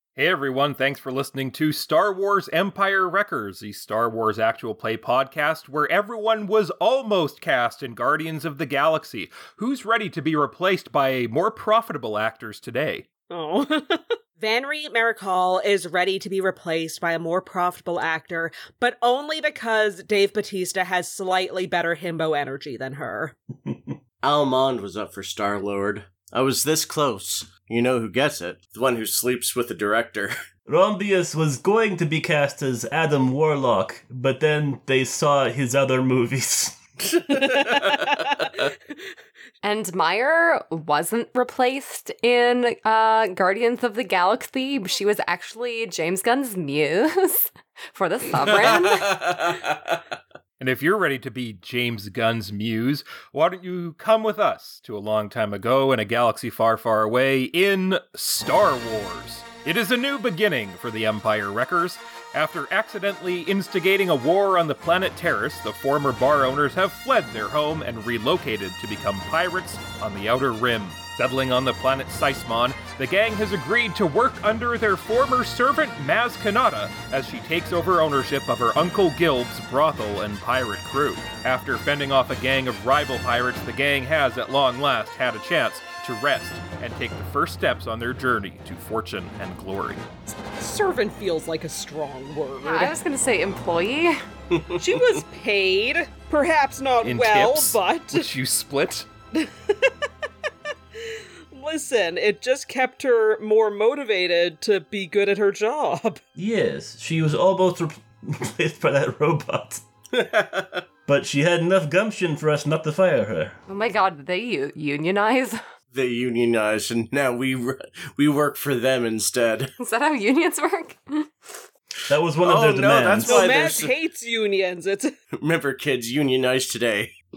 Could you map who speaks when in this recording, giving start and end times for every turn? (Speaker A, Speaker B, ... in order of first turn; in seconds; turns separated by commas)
Speaker A: 0.2-13.1, Speaker B: 13.3-23.3, Speaker C: 23.6-23.9, Speaker D: 24.2-30.3, Speaker C: 30.7-36.7, Speaker D: 37.1-38.3, Speaker B: 37.3-38.3, Speaker E: 39.6-49.4, Speaker D: 48.5-50.0, Speaker A: 50.6-90.1, Speaker B: 90.6-92.9, Speaker E: 92.6-94.2, Speaker D: 94.5-95.1, Speaker B: 94.8-98.2, Speaker A: 97.0-99.1, Speaker B: 99.3-99.9, Speaker B: 101.0-106.2, Speaker C: 106.3-109.8, Speaker D: 110.1-110.8, Speaker C: 111.1-113.6, Speaker E: 113.7-115.6, Speaker D: 115.9-119.7, Speaker E: 119.8-121.6, Speaker C: 122.1-123.5, Speaker D: 122.4-123.9, Speaker B: 123.2-125.1, Speaker D: 125.4-127.1